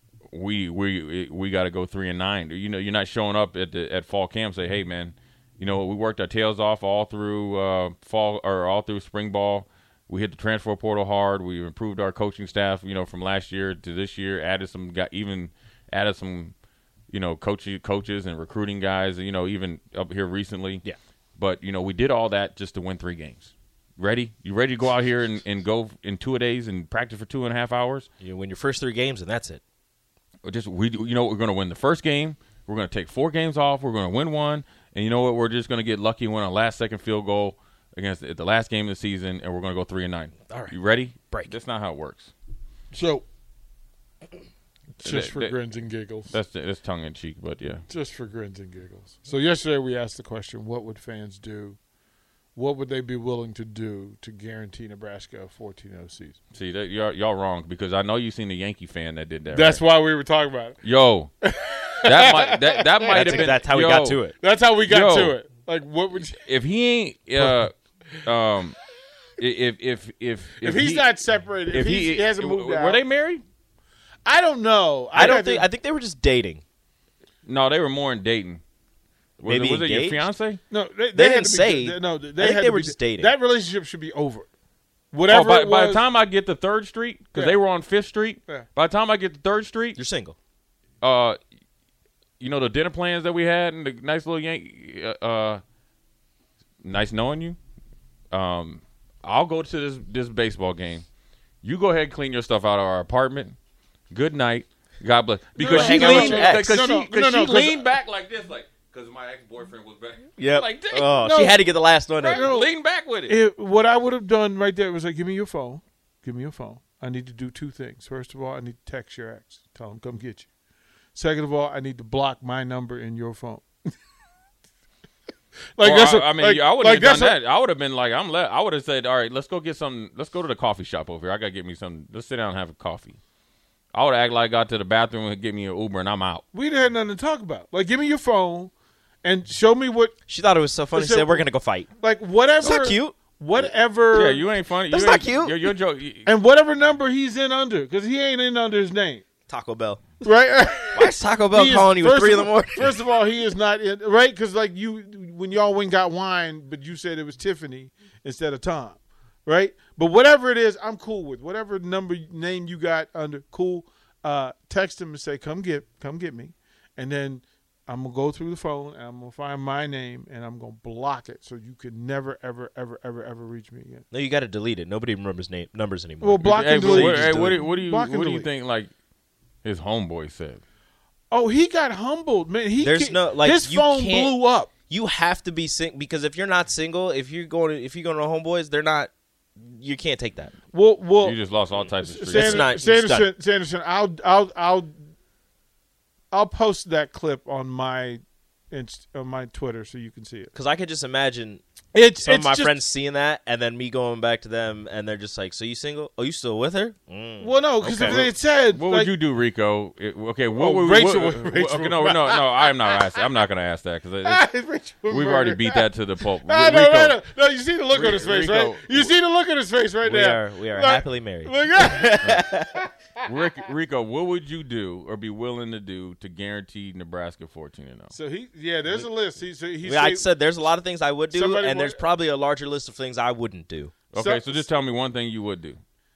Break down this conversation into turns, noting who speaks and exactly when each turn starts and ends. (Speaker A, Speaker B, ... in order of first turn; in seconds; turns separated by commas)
Speaker A: 0.3-16.5, Speaker A: 17.1-20.8, Speaker A: 21.4-28.1, Speaker B: 28.2-29.6, Speaker A: 30.4-42.3, Speaker B: 40.5-41.5, Speaker C: 42.9-43.2, Speaker C: 45.0-46.4, Speaker A: 45.0-45.5, Speaker A: 46.3-47.8, Speaker C: 47.9-51.8, Speaker C: 52.6-56.4, Speaker A: 56.5-59.8, Speaker C: 59.5-60.8, Speaker A: 60.8-61.3, Speaker C: 61.4-63.6, Speaker A: 62.0-64.2, Speaker B: 63.1-64.3, Speaker C: 64.4-66.4, Speaker A: 64.9-65.4, Speaker A: 66.4-68.8, Speaker A: 69.4-71.1, Speaker C: 70.6-73.0, Speaker A: 71.7-73.4, Speaker C: 74.3-75.7, Speaker B: 75.1-76.6, Speaker A: 77.5-78.6, Speaker A: 79.4-80.6, Speaker B: 79.5-80.2, Speaker C: 80.7-84.5, Speaker B: 81.2-83.3, Speaker C: 85.1-86.0, Speaker A: 85.3-90.0, Speaker B: 90.0-90.4, Speaker A: 91.0-91.4, Speaker A: 92.4-95.6, Speaker A: 96.8-97.6, Speaker A: 98.3-101.0, Speaker A: 101.6-103.6, Speaker A: 104.1-111.3, Speaker C: 105.6-107.9, Speaker B: 105.6-106.9, Speaker B: 110.4-112.5, Speaker C: 111.2-111.7, Speaker A: 112.2-113.4, Speaker C: 112.2-112.7, Speaker C: 113.3-120.5, Speaker C: 121.2-123.7, Speaker C: 125.8-127.4, Speaker A: 125.8-133.2, Speaker A: 133.9-136.4, Speaker C: 136.5-138.7, Speaker C: 139.2-140.2, Speaker B: 140.3-141.9, Speaker C: 140.9-141.4, Speaker C: 142.0-144.4, Speaker B: 142.6-143.2, Speaker A: 144.1-146.3, Speaker B: 144.9-145.6, Speaker C: 146.2-149.2, Speaker B: 149.5-150.0, Speaker C: 150.2-174.0, Speaker B: 150.9-152.9, Speaker B: 174.1-177.6, Speaker C: 176.2-178.5, Speaker A: 176.5-178.9, Speaker A: 179.6-180.6, Speaker C: 181.3-184.7, Speaker B: 182.8-184.4, Speaker B: 184.9-190.5, Speaker C: 190.7-191.4, Speaker A: 191.2-192.7, Speaker C: 192.0-194.9, Speaker B: 192.3-193.3, Speaker C: 196.3-200.5, Speaker B: 200.5-201.6, Speaker C: 201.9-202.8, Speaker B: 202.2-208.2, Speaker C: 207.4-209.1, Speaker A: 208.0-214.5, Speaker C: 210.6-213.0, Speaker C: 214.2-223.3, Speaker A: 215.1-217.2, Speaker A: 217.9-219.1, Speaker B: 220.0-222.7, Speaker A: 223.2-228.1, Speaker C: 228.1-230.3, Speaker B: 229.8-233.9, Speaker C: 231.3-232.0, Speaker A: 234.1-235.8, Speaker C: 234.2-234.7